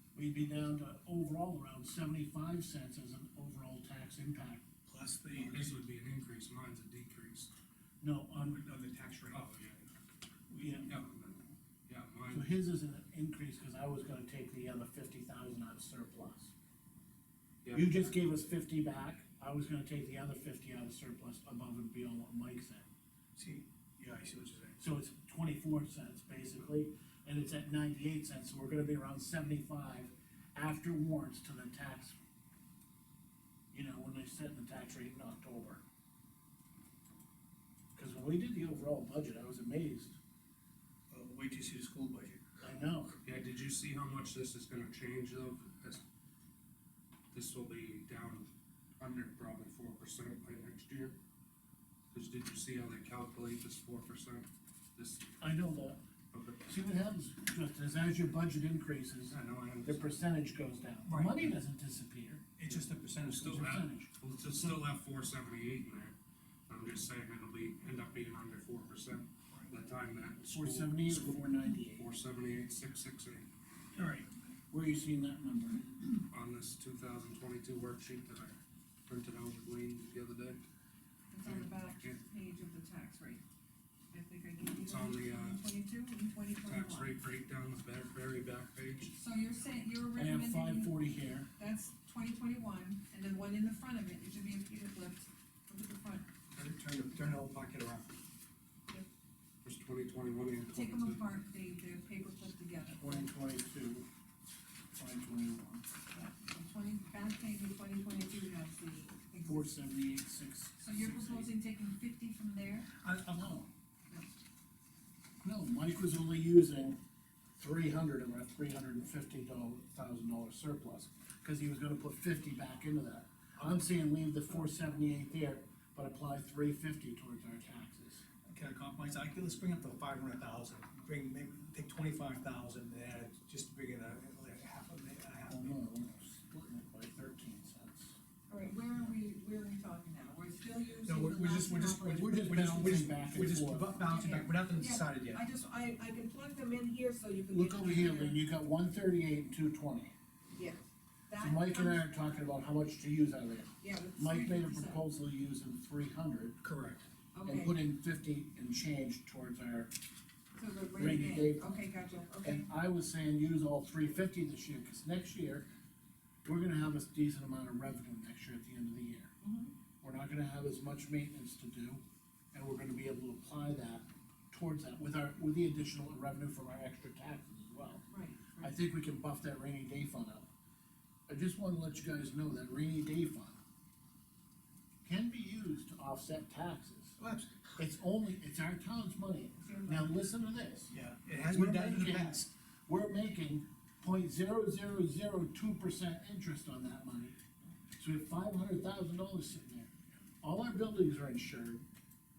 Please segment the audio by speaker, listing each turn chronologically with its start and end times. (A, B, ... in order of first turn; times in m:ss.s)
0:00.2-0:04.6 A
0:04.9-0:05.8 B
0:05.4-0:07.5 C
0:08.0-0:08.6 A
0:08.4-0:09.4 B
0:09.3-0:09.8 C
0:10.5-0:10.9 A
0:10.9-0:12.5 C
0:12.3-0:16.5 A
0:17.6-0:18.1 C
0:17.7-0:22.9 A
0:23.4-0:24.8 B
0:24.8-0:32.2 A
0:33.7-0:35.8 A
0:38.0-0:40.2 A
0:41.1-0:42.5 B
0:42.6-0:43.2 A
0:43.2-0:46.0 C
0:47.3-0:51.2 C
0:52.1-0:55.3 C
0:55.4-0:56.0 A
0:56.3-0:56.7 C
0:56.7-1:04.8 A
0:59.3-1:00.2 C
1:01.0-1:01.5 B
1:02.6-1:03.8 B
1:03.3-1:06.1 C
1:06.7-1:13.5 C
1:10.5-1:12.1 A
1:14.0-1:14.3 B
1:14.7-1:16.1 A
1:16.3-1:20.6 C
1:21.3-1:23.4 D
1:21.4-1:22.2 C
1:24.1-1:27.1 D
1:24.8-1:25.6 C
1:26.7-1:29.1 C
1:29.1-1:31.0 D
1:30.2-1:31.5 A
1:31.6-1:36.3 D
1:36.5-1:38.2 B
1:39.6-1:41.2 C
1:40.7-1:43.3 D
1:43.0-1:44.1 A
1:44.9-1:45.8 A
1:46.1-1:49.7 D
1:49.4-1:51.5 A
1:50.8-1:52.9 D
1:53.0-1:53.7 B
1:55.4-1:57.0 A
1:57.6-2:08.2 A
2:08.5-2:15.9 B
2:15.5-2:18.2 A
2:18.5-2:23.1 D
2:21.0-2:25.4 B
2:22.2-2:24.0 A
2:24.1-2:28.4 D
2:27.5-2:30.1 A
2:30.5-2:32.1 D
2:31.4-2:36.6 A
2:33.8-2:35.0 D
2:36.6-2:37.0 B
2:37.3-2:37.8 D
2:37.4-2:39.9 A
2:40.6-2:42.7 D
2:41.0-2:41.8 A
2:42.4-2:45.7 A
2:46.4-2:49.3 A
2:49.4-2:49.7 D
2:50.0-2:52.0 A
2:52.5-2:58.1 A
2:58.1-2:58.7 D
2:58.6-3:00.5 A
3:01.3-3:03.6 A
3:05.0-3:07.2 A
3:07.2-3:07.7 B
3:07.8-3:17.4 A
3:09.6-3:10.2 D
3:10.9-3:12.5 B
3:18.0-3:21.8 A